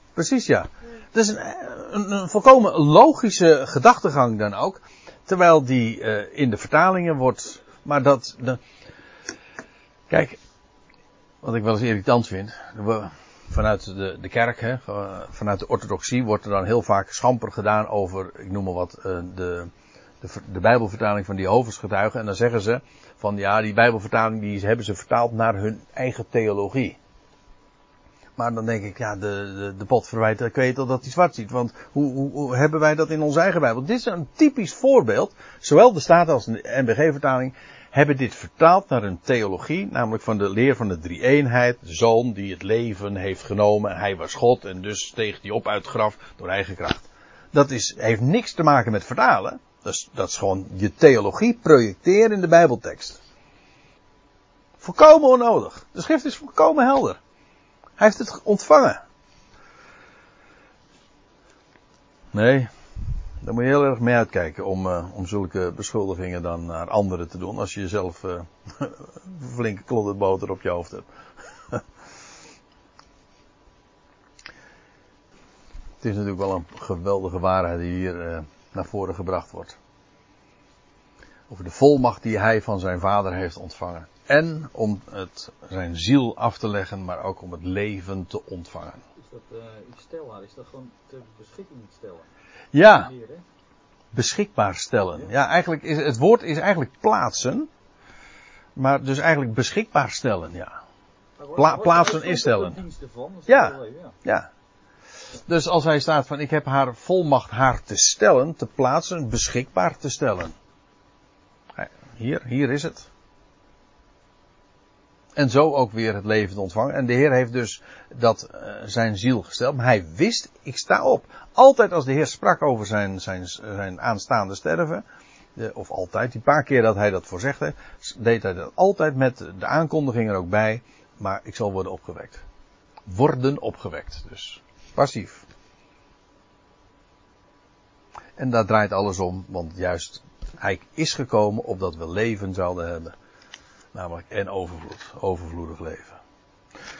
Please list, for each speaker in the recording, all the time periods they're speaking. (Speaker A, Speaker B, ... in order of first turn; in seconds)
Speaker A: 0.1-8.6, 10.1-10.4, 11.4-19.7, 20.2-27.0, 28.4-53.2, 54.8-57.2, 58.0-59.0, 62.3-62.7, 63.4-71.1, 76.0-79.8, 81.5-89.0, 92.7-93.1, 94.1-97.7, 98.8-100.8, 101.5-102.8, 103.5-104.5, 105.5-110.5, 111.8-113.1, 115.3-125.0, 125.5-132.4, 133.1-135.4, 138.4-143.1, 143.9-146.2
Speaker B: 89.2-92.3, 92.8-93.4, 101.4-104.2